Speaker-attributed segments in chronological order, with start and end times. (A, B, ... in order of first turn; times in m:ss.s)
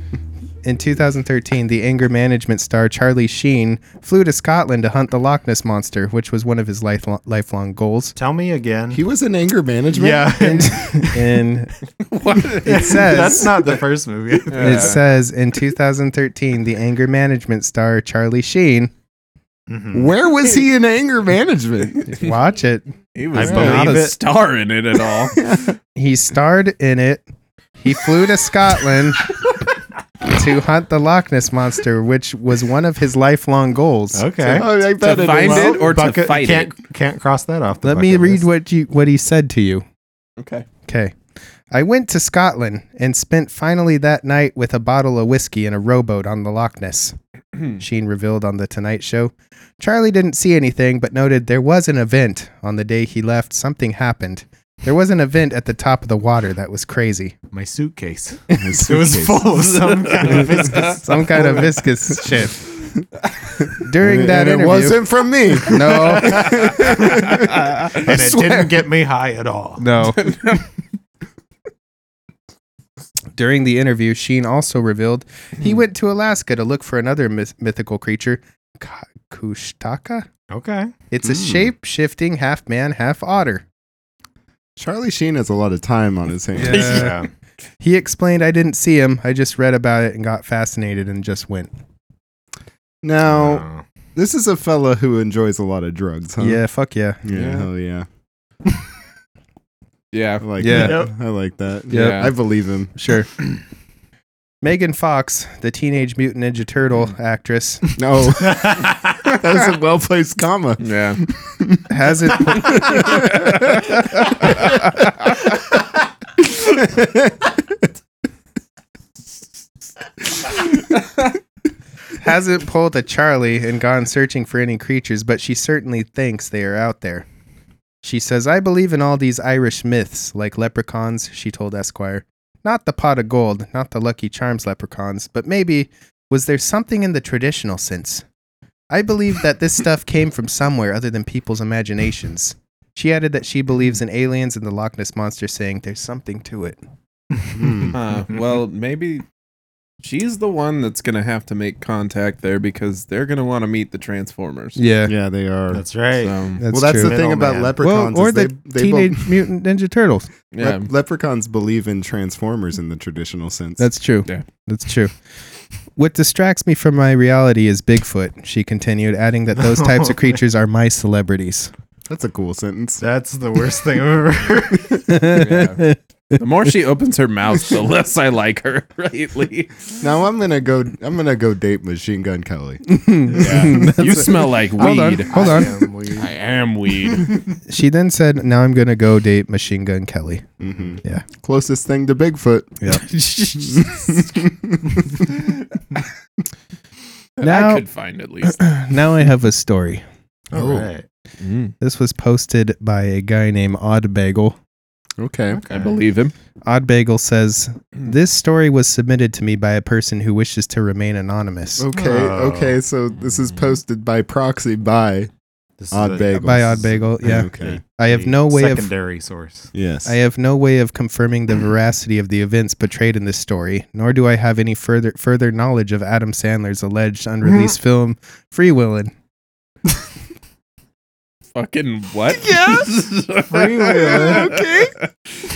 0:00.6-0:08.1 A
0:08.2-0:09.0 B
0:08.9-0:10.5 C
0:09.9-0:11.4 B
0:10.4-0:11.7 A
0:12.0-0:13.1 D
0:12.6-0:13.6 A
0:12.6-0:15.0 B
0:14.5-0:15.0 D
0:14.6-0:18.9 A
0:19.7-0:20.1 B
0:19.9-0:22.2 C
0:22.1-0:22.8 A
0:23.1-0:25.4 D
0:23.3-0:24.2 B
0:23.4-0:24.0 A
0:23.4-0:23.7 C
0:25.3-0:25.8 C
0:26.0-0:27.2 A
0:27.8-0:29.3 A
0:30.3-0:34.6 A
0:34.1-0:34.7 B
0:34.4-0:36.0 C
0:35.0-0:36.7 D
0:35.2-0:38.5 B
0:37.8-0:39.8 A
0:40.4-0:40.6 D
0:40.8-0:41.1 A
0:41.7-0:47.2 A
0:47.8-0:57.3 A
0:57.5-1:01.8 B
0:58.6-0:59.6 C
0:59.7-1:01.0 D
1:00.8-1:02.6 A
1:03.8-1:05.0 A
1:04.0-1:08.7 C
1:05.6-1:06.7 A
1:06.0-1:09.8 B
1:06.6-1:08.2 D
1:09.8-1:10.2 A
1:10.2-1:10.6 D
1:13.3-1:20.3 A
1:20.5-1:20.9 B
1:21.1-1:23.6 A
1:21.2-1:21.7 C
1:24.8-1:27.1 C
1:26.6-1:27.2 A
1:26.6-1:27.3 B
1:27.8-1:31.7 A
1:33.0-1:33.6 C
1:33.2-1:33.8 B
1:34.2-1:36.6 C
1:36.4-1:37.2 A
1:37.2-1:38.0 C
1:37.3-1:37.7 D
1:40.1-1:40.9 D
1:40.4-1:42.9 C
1:40.6-1:41.1 A
1:40.7-1:41.1 B
1:41.9-1:42.3 A
1:41.9-1:42.3 D
1:42.9-1:43.3 A
1:44.6-1:47.8 A
1:48.0-1:51.8 C
1:48.3-1:49.3 B
1:50.8-1:51.2 D
1:51.9-1:53.2 A
1:52.5-1:53.9 C
1:56.6-1:57.5 C
2:02.2-2:07.2 A
2:08.0-2:18.2 A
2:18.9-2:26.8 A
2:27.5-2:28.0 C
2:27.9-2:29.2 D
2:30.0-2:34.8 D
2:34.8-2:35.1 A
2:35.1-2:35.8 C
2:35.7-2:37.8 B
2:36.2-2:36.6 D
2:36.6-2:37.1 A
2:36.7-2:39.4 C
2:37.8-2:40.3 A
2:40.5-2:40.9 D
2:40.6-2:43.9 C
2:43.8-2:45.1 A
2:46.0-2:51.7 A
2:49.6-2:50.4 B
2:52.1-2:53.0 C
2:53.0-2:55.2 B
2:55.1-2:56.4 A
2:55.2-2:55.8 D
2:56.4-2:59.8 D
3:00.0-3:03.8 C
3:02.8-3:05.7 A
3:03.4-3:07.4 D
3:03.4-3:03.8 B
3:04.8-3:06.3 B
3:07.7-3:10.4 A
3:10.6-3:12.8 C
3:13.0-3:14.2 D
3:13.6-3:15.2 C
3:17.4-3:18.6 D
3:17.4-3:17.8 A
3:18.4-3:20.0 A
3:20.5-3:21.0 B
3:20.5-3:20.9 C
3:21.4-3:21.7 D
3:21.8-3:24.6 A
3:25.2-3:25.6 C
3:25.5-3:26.0 B
3:25.7-3:26.3 D
3:26.6-3:31.8 A
3:31.8-3:35.3 C
3:31.9-3:32.8 B
3:35.8-3:39.7 B
3:35.9-3:37.8 C
3:36.4-3:38.9 A
3:39.7-3:40.2 C
3:40.0-3:49.1 A
3:51.5-3:55.0 D
3:53.5-3:54.5 B
3:53.9-3:54.9 C